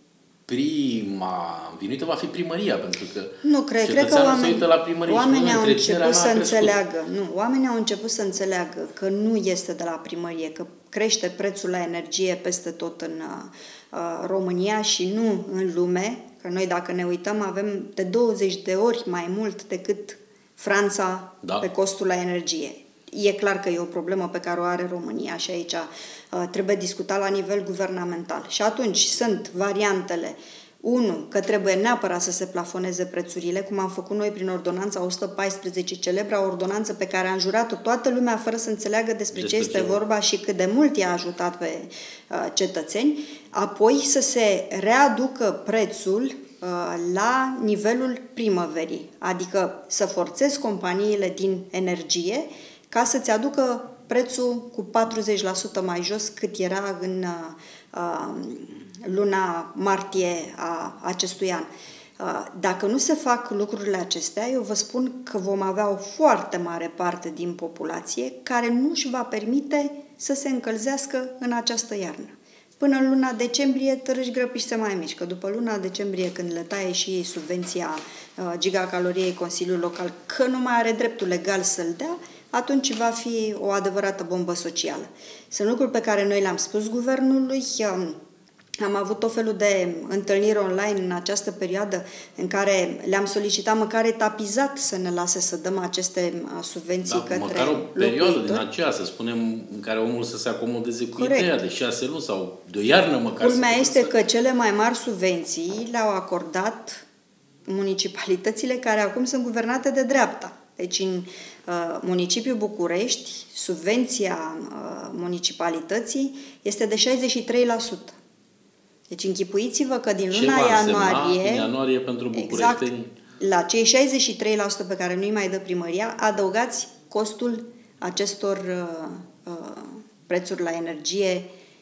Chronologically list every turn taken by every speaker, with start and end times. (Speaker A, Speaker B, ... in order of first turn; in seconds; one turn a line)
Speaker A: 0.5-6.8
Speaker B: 3.4-88.2
Speaker A: 39.3-40.0
Speaker B: 88.8-98.6
Speaker A: 97.0-104.2
Speaker B: 101.1-101.5
Speaker B: 103.4-107.0
Speaker B: 107.7-118.2
Speaker B: 119.1-121.7
Speaker A: 120.3-123.1
Speaker B: 122.3-122.9
Speaker B: 123.4-131.5